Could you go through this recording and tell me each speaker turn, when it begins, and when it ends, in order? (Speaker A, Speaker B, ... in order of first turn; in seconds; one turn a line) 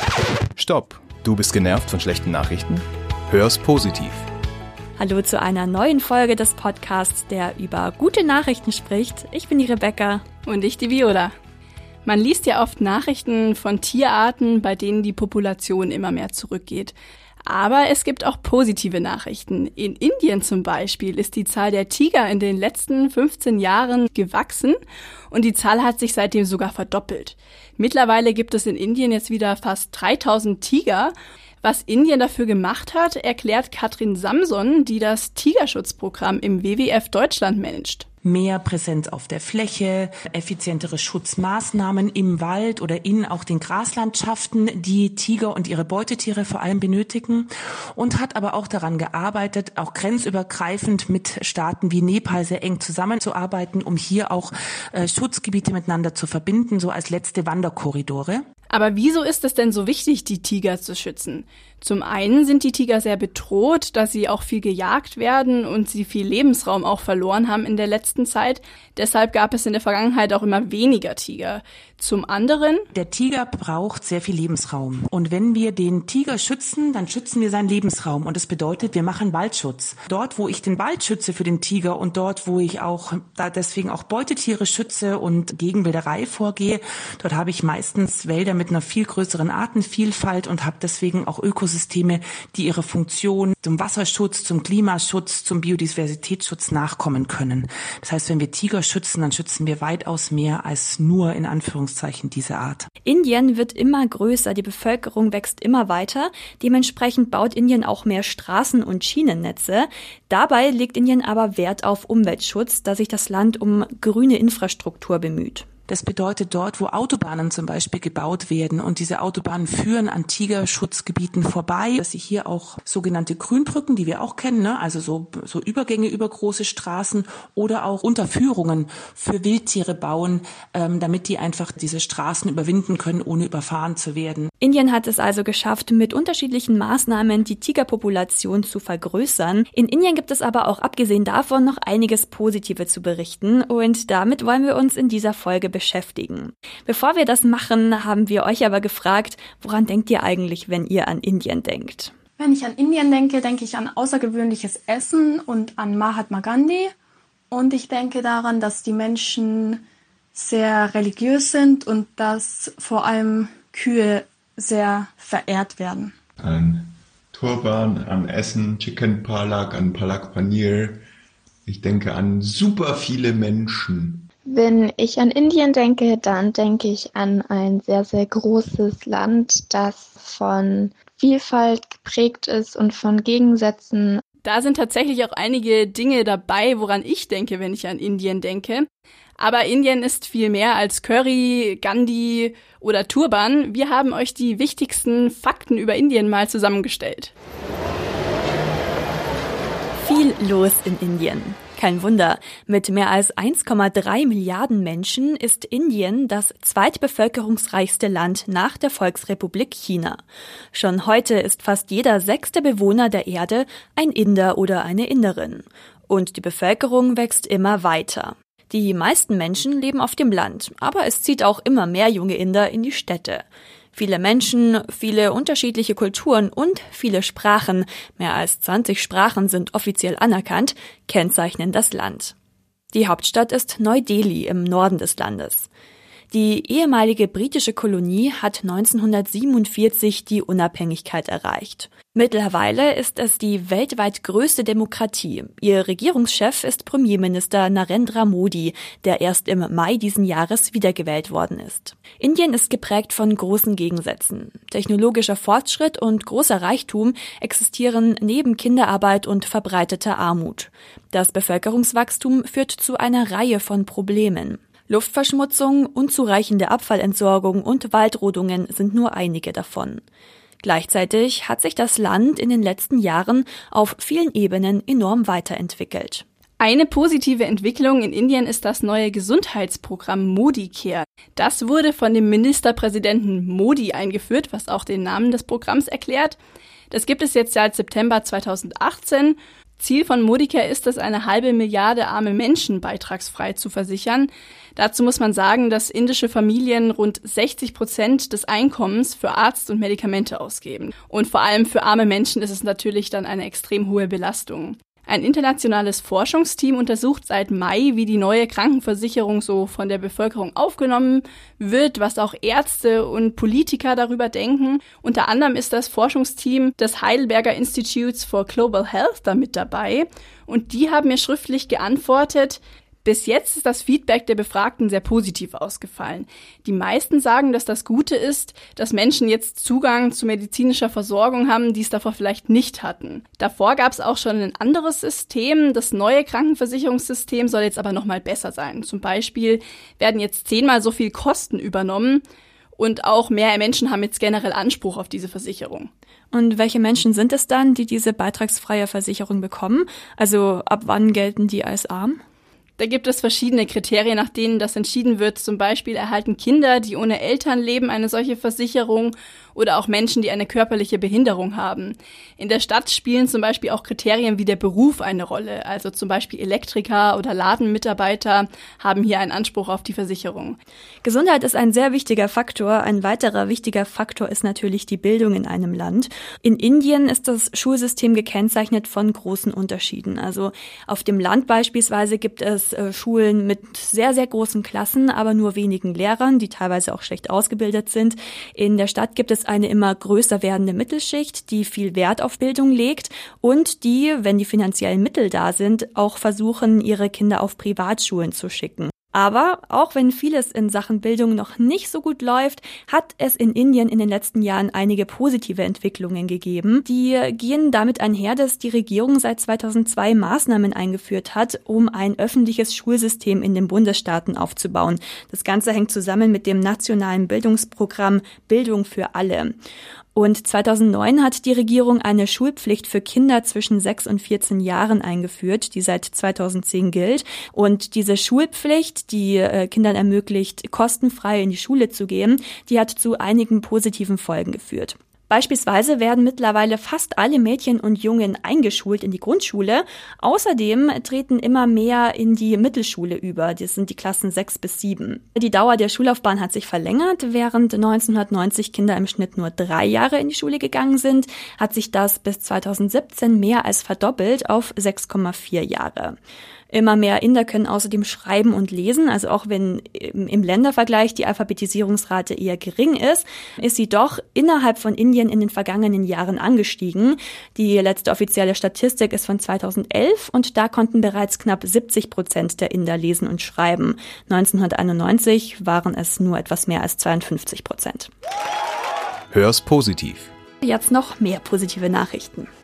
Speaker A: 0.6-4.2
Speaker B: 5.0-10.2
Speaker C: 10.5-11.3
Speaker C: 12.1-16.9
Speaker C: 17.5-24.8
Speaker C: 25.3-38.1
Speaker D: 38.2-58.5
Speaker C: 58.7-72.8
Speaker D: 72.9-102.9
Speaker B: 103.1-115.7
Speaker D: 115.9-134.5
Speaker B: 134.6-152.1
Speaker E: 152.4-156.9
Speaker E: 157.5-166.2
Speaker F: 166.4-171.0
Speaker F: 171.7-174.3
Speaker G: 174.5-184.2
Speaker C: 184.4-188.9
Speaker C: 189.4-197.3
Speaker B: 200.0-210.2
Speaker B: 210.7-223.4
Speaker B: 223.9-232.3
Speaker B: 232.9-235.7
Speaker B: 236.3-270.0
Speaker B: 270.6-276.2
Speaker C: 276.6-286.4
Speaker C: 286.9-342.2
Speaker C: 342.8-345.9
Speaker B: 346.3-352.2
Speaker C: 352.8-370.6
Speaker B: 371.0-419.6
Speaker B: 420.1-456.2
Speaker B: 456.7-478.1
Speaker A: 479.3-480.3
Speaker B: 480.6-482.5